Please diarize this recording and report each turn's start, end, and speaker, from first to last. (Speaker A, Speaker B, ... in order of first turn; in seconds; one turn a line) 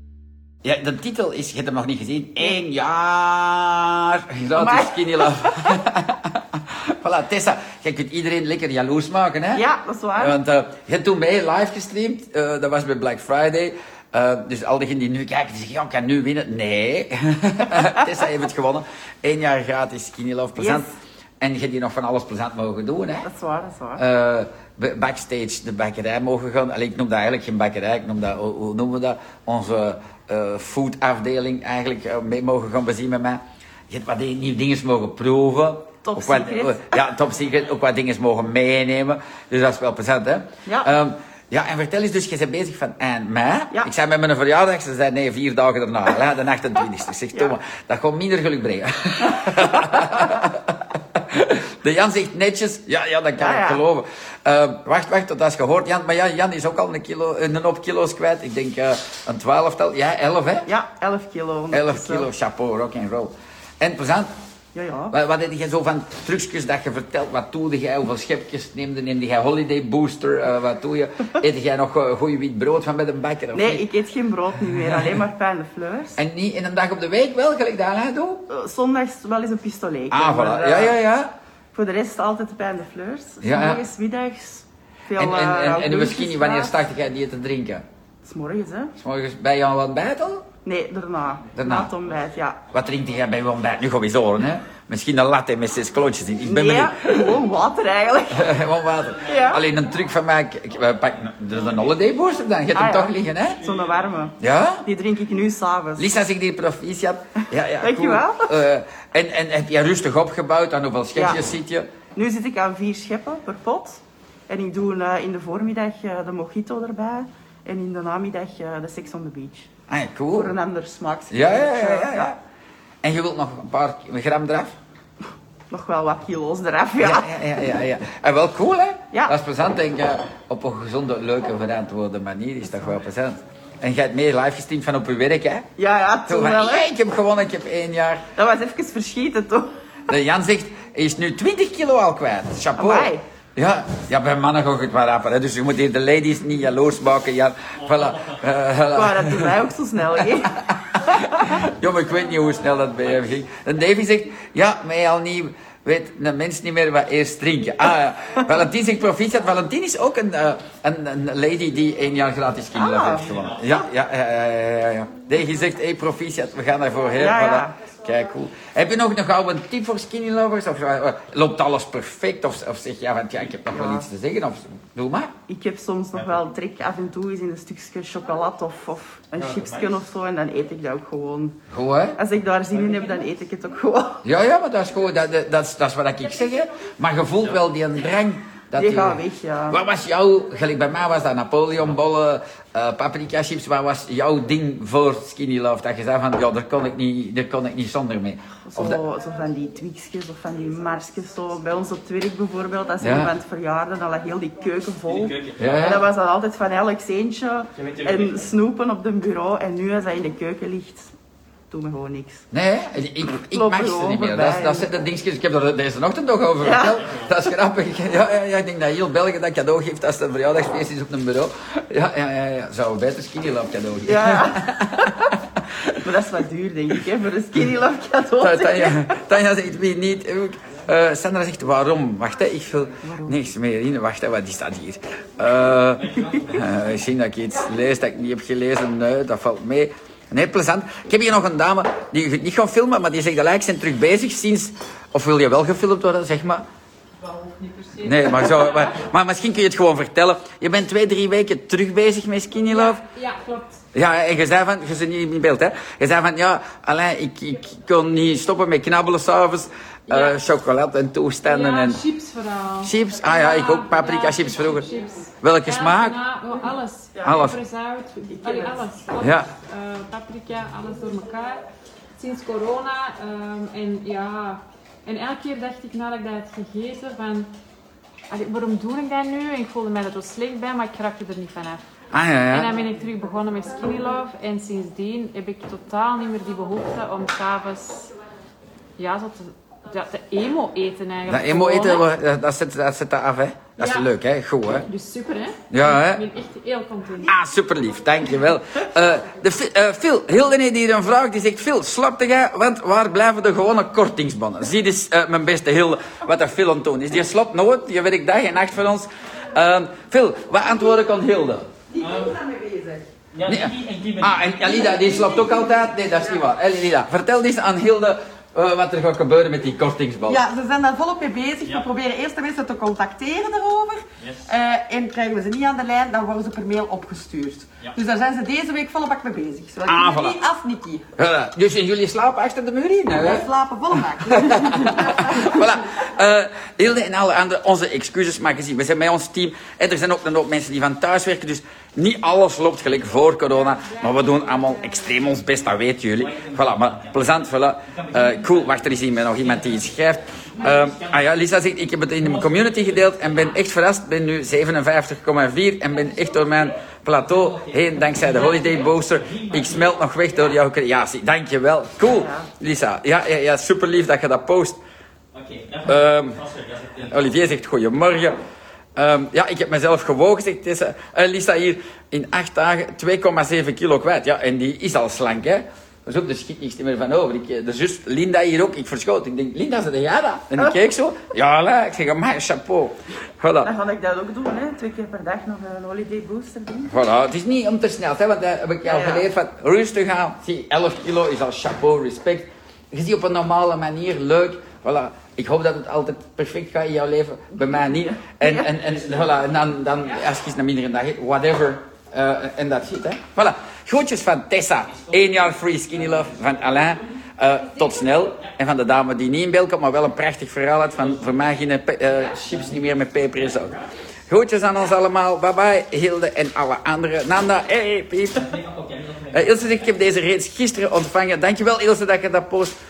Speaker A: 0.6-9.6
Speaker B: 4.5-5.7
Speaker B: 9.5-10.4
Speaker A: 10.2-20.9
Speaker B: 20.6-20.9
Speaker A: 21.4-23.3
Speaker B: 23.2-24.0
Speaker A: 24.0-60.7
Speaker B: 36.0-36.9
Speaker B: 53.4-53.8
Speaker B: 60.6-62.3
Speaker A: 61.7-64.3
Speaker B: 64.7-65.1
Speaker A: 65.1-73.8
Speaker B: 73.5-76.2
Speaker A: 76.2-78.4
Speaker B: 78.5-81.0
Speaker A: 80.1-81.3
Speaker B: 81.7-86.8
Speaker A: 83.4-83.8
Speaker A: 85.2-87.8
Speaker B: 88.2-88.9
Speaker A: 89.0-90.5
Speaker B: 90.6-92.6
Speaker A: 91.5-91.9
Speaker A: 92.7-97.3
Speaker B: 96.4-98.5
Speaker A: 98.3-103.6
Speaker B: 99.2-99.6
Speaker B: 102.7-106.1
Speaker A: 104.4-104.8
Speaker A: 106.0-111.9
Speaker B: 107.8-108.5
Speaker B: 111.1-111.4
Speaker B: 112.1-119.7
Speaker A: 119.9-120.5
Speaker B: 120.3-122.3
Speaker A: 121.3-122.4
Speaker A: 123.0-124.7
Speaker B: 125.7-127.4
Speaker A: 127.0-135.7
Speaker B: 135.8-136.9
Speaker A: 136.3-138.3
Speaker B: 138.3-139.7
Speaker A: 140.1-149.5
Speaker B: 142.7-143.2
Speaker B: 148.9-150.5
Speaker A: 150.7-175.3
Speaker B: 162.7-163.4
Speaker B: 167.2-167.7
Speaker B: 173.7-174.1
Speaker B: 175.5-181.6
Speaker A: 181.7-182.2
Speaker B: 182.2-184.2
Speaker A: 184.2-199.0
Speaker B: 188.8-189.8
Speaker B: 198.7-211.1
Speaker A: 203.0-203.3
Speaker A: 205.5-206.0
Speaker B: 211.7-212.4
Speaker A: 212.5-225.3
Speaker B: 213.5-214.9
Speaker B: 216.6-216.9
Speaker B: 224.0-225.2
Speaker B: 226.0-229.1
Speaker A: 228.4-246.6
Speaker B: 233.0-233.3
Speaker C: 247.2-248.7
Speaker A: 248.0-253.0
Speaker C: 252.7-253.8
Speaker A: 253.9-262.0
Speaker C: 260.1-260.4
Speaker C: 261.4-277.5
Speaker A: 262.8-264.9
Speaker A: 265.4-266.2
Speaker B: 267.1-267.4
Speaker A: 267.2-267.6
Speaker B: 268.3-268.8
Speaker A: 269.2-269.5
Speaker C: 278.3-281.8
Speaker A: 282.1-282.7
Speaker C: 282.5-288.1
Speaker C: 289.0-292.1
Speaker A: 291.3-294.9
Speaker C: 293.8-294.1
Speaker C: 294.9-297.3
Speaker A: 295.7-296.2
Speaker A: 297.2-311.7
Speaker B: 311.9-313.0
Speaker D: 312.0-312.4
Speaker D: 313.3-314.6
Speaker A: 313.4-320.4
Speaker B: 320.3-324.0
Speaker D: 320.5-328.0
Speaker B: 324.5-331.0
Speaker D: 328.6-330.3
Speaker A: 329.8-330.4
Speaker A: 331.1-333.5
Speaker B: 333.2-335.5
Speaker D: 334.1-335.3
Speaker A: 334.3-364.8
Speaker C: 343.4-345.5
Speaker D: 346.4-347.1
Speaker D: 349.4-349.8
Speaker D: 350.6-351.1
Speaker D: 352.4-352.9
Speaker D: 357.2-359.9
Speaker B: 362.1-362.4
Speaker D: 365.3-365.9
Speaker A: 365.8-366.4
Speaker D: 366.4-366.9
Speaker A: 366.9-368.4
Speaker A: 368.9-383.7
Speaker B: 383.6-386.9
Speaker A: 386.9-413.7
Speaker B: 388.8-389.2
Speaker B: 398.2-398.7
Speaker D: 406.1-406.5
Speaker D: 413.4-413.8
Speaker A: 414.3-418.5
Speaker D: 418.4-419.3
Speaker A: 419.3-422.8